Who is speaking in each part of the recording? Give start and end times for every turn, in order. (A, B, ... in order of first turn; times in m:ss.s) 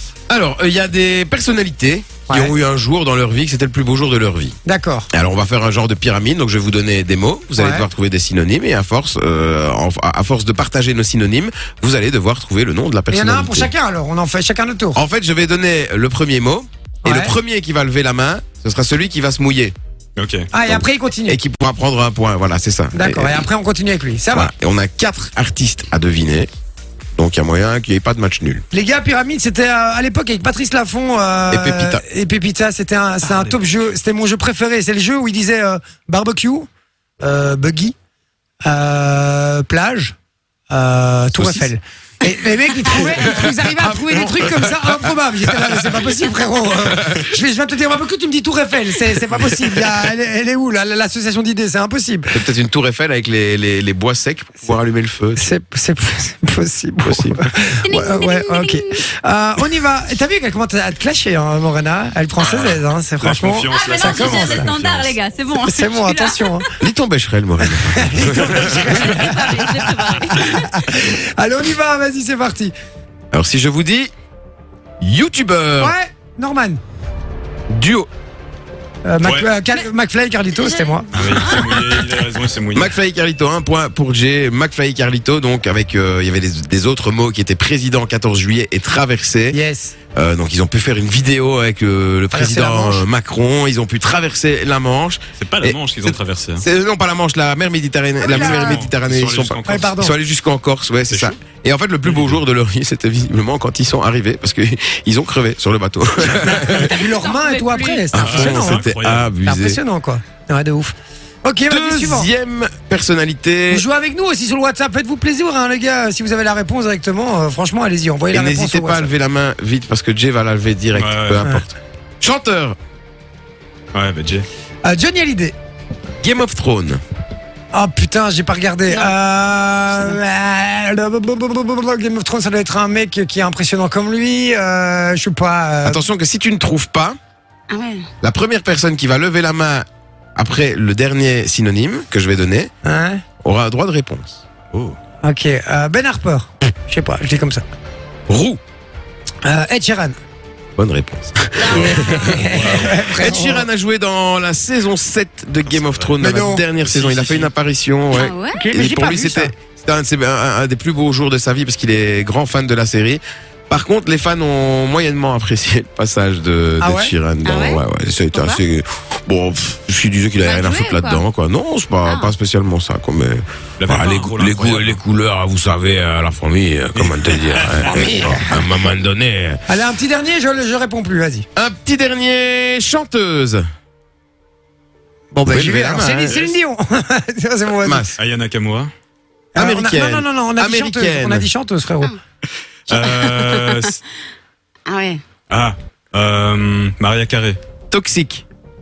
0:00.3-0:04.6 A
0:02.3-0:02.5 B
0:04.6-0:05.1 B
0:05.1-0:13.7 A
0:07.6-0:07.9 B
0:13.1-0:15.0 B
0:15.0-0:19.7 A
0:17.0-0:17.3 B
0:20.2-0:20.5 C
0:20.5-0:21.4 B
0:20.6-0:23.4 A
0:22.9-0:24.5 B
0:24.3-0:26.5 A
0:27.2-0:28.6 A
0:28.7-0:36.7 B
0:31.5-0:32.0 A
0:33.3-0:33.7 C
0:37.2-0:38.0 B
0:38.6-0:40.1 B
0:40.7-0:52.3 B
0:41.3-0:41.7 A
0:42.8-0:47.3 A
0:52.3-0:55.5 A
0:55.4-1:04.7 B
0:57.0-0:57.4 A
0:57.8-0:59.0 D
1:03.2-1:05.2 C
1:03.7-1:06.7 D
1:05.6-1:06.7 B
1:06.8-1:09.1 A
1:07.6-1:12.7 B
1:08.7-1:10.7 D
1:13.3-1:14.1 A
1:15.0-1:15.9 A
1:15.8-1:16.8 B
1:17.7-1:18.1 A
1:19.0-1:21.1 B
1:19.2-1:19.5 C
1:20.5-1:21.8 D
1:21.1-1:22.9 C
1:22.7-1:29.6 A
1:29.5-1:30.0 B
1:30.1-1:47.0 A
1:32.3-1:33.0 B
1:35.4-1:36.6 C
1:38.2-1:38.8 B
1:38.3-1:40.0 C
1:39.6-1:40.1 B
1:41.1-1:41.4 C
1:42.0-1:42.4 C
1:46.4-1:48.8 B
1:46.8-1:48.0 D
1:48.1-1:49.8 A
1:48.1-1:49.3 C
1:49.4-1:52.3 B
1:51.7-1:53.8 A
1:53.7-1:59.1 B
1:58.3-2:02.8 A
2:00.9-2:01.5 C
2:03.9-2:04.4 C
2:04.8-2:05.5 B
2:06.2-2:07.0 A
2:07.7-2:16.0 B
2:08.9-2:09.1 D
2:15.8-2:17.2 A
2:17.7-2:18.1 D
2:18.2-2:22.7 A
2:22.8-2:23.2 B
2:23.4-2:24.4 A
2:25.2-2:27.6 B
2:28.3-2:28.6 A
2:29.4-2:30.2 B
2:30.8-2:59.6 A
2:31.6-2:32.5 D
2:31.7-2:33.7 B
2:31.9-2:33.1 C
2:35.6-2:36.2 C
2:36.2-2:36.6 B
2:36.8-2:37.5 C
2:38.1-2:38.6 D
2:38.5-2:39.5 B
2:46.8-2:47.1 B
2:47.4-2:47.8 D
2:48.3-2:48.6 D
2:50.4-2:51.2 D
2:52.0-2:52.3 D
2:53.8-2:55.0 C
2:56.9-2:58.1 C
2:57.9-2:58.7 B
2:59.7-3:01.4 B
3:01.6-3:03.6 A
3:05.3-3:08.1 B
3:05.4-3:06.6 A
3:07.8-3:08.1 A
3:08.2-3:08.9 C
3:09.5-3:12.1 B
3:09.6-3:11.5 A
3:12.9-3:14.0 C
3:12.9-3:13.9 D
3:14.9-3:15.2 D
3:15.5-3:17.6 C
3:17.9-3:18.4 A